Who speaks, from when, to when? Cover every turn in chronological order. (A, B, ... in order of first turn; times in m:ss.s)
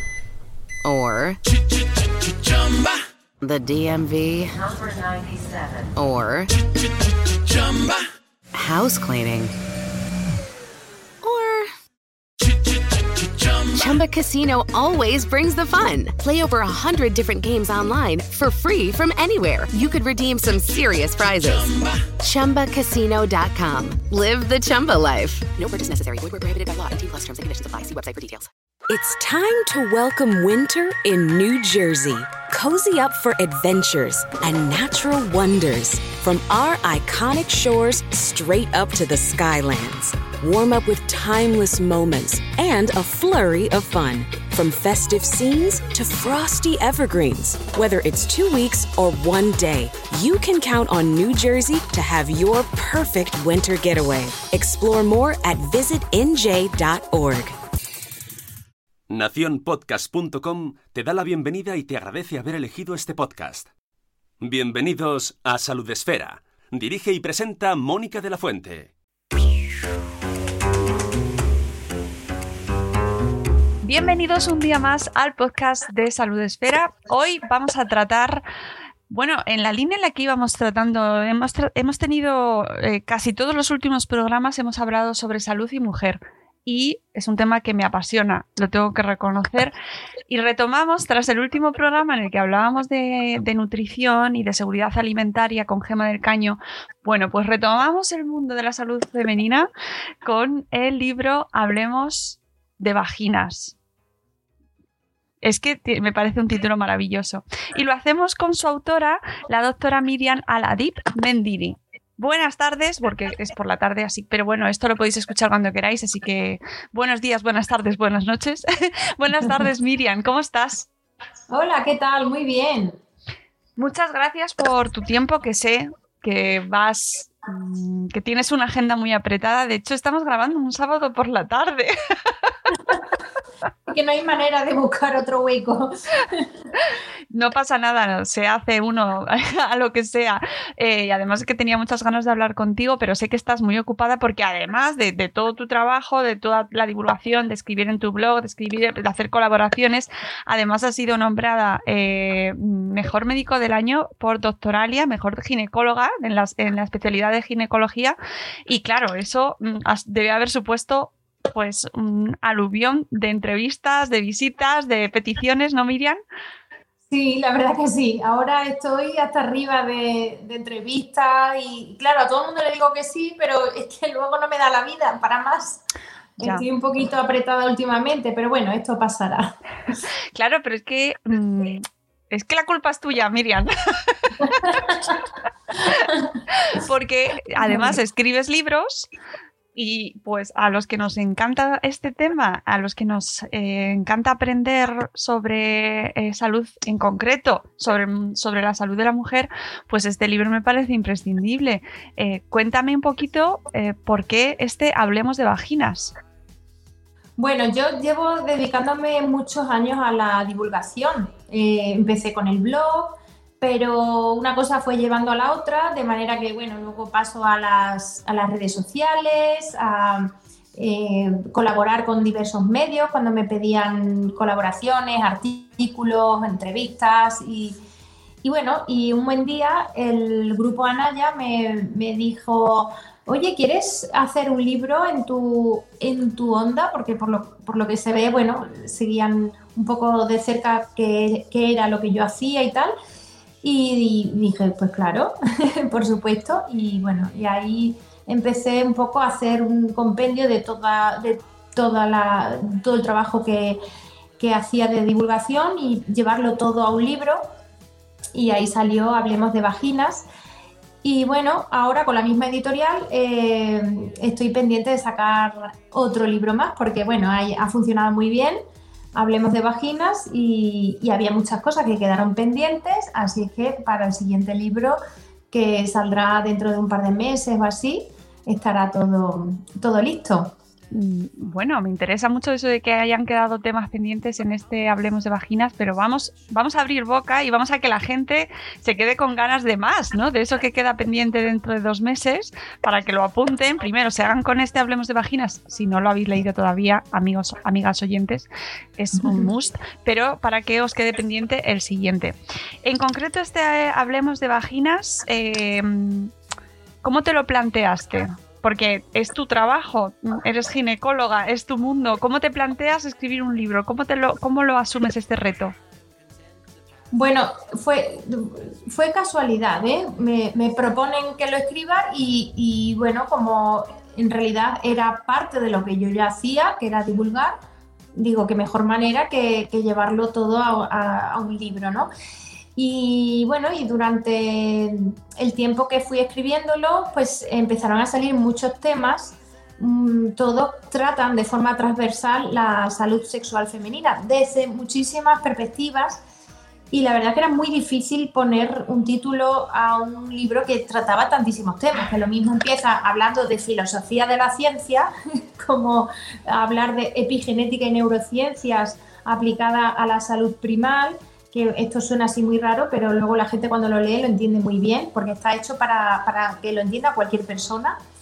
0:00.8-0:01.4 A
0:03.4-0:06.6 A
0:08.5-0:09.5 A
0:11.2-0:11.7 A
0:13.5-0:28.5 A
0:28.9-0:57.6 B
0:59.1-1:03.7 C
1:04.4-1:08.9 C
1:13.8-1:18.4 D
1:19.1-1:29.8 D
1:30.3-1:39.7 D
1:40.2-1:43.8 D
1:45.4-2:00.9 D
2:01.5-2:03.0 E
2:03.8-2:12.3 D
2:13.9-2:16.5 E
2:17.3-2:46.2 D
2:47.1-2:55.8 E
2:56.4-3:00.0 E
2:56.4-2:56.7 D
3:00.3-3:04.7 D
3:04.4-3:05.2 E
3:05.8-3:09.1 D
3:07.6-3:08.0 E
3:09.8-3:26.2 D
3:27.4-3:47.8 E
3:48.4-4:02.9 E
4:03.6-4:13.8 E
4:14.4-4:17.4 E
4:18.3-4:20.3 E
4:21.0-4:28.6 E
4:29.2-4:35.0 E
4:35.5-4:40.6 E
4:40.9-5:06.3 D
4:59.2-4:59.5 E
5:07.0-5:15.8 D
5:17.1-5:27.6 E
5:28.2-5:32.1 E
5:32.8-5:46.2 E
5:46.9-6:08.0 E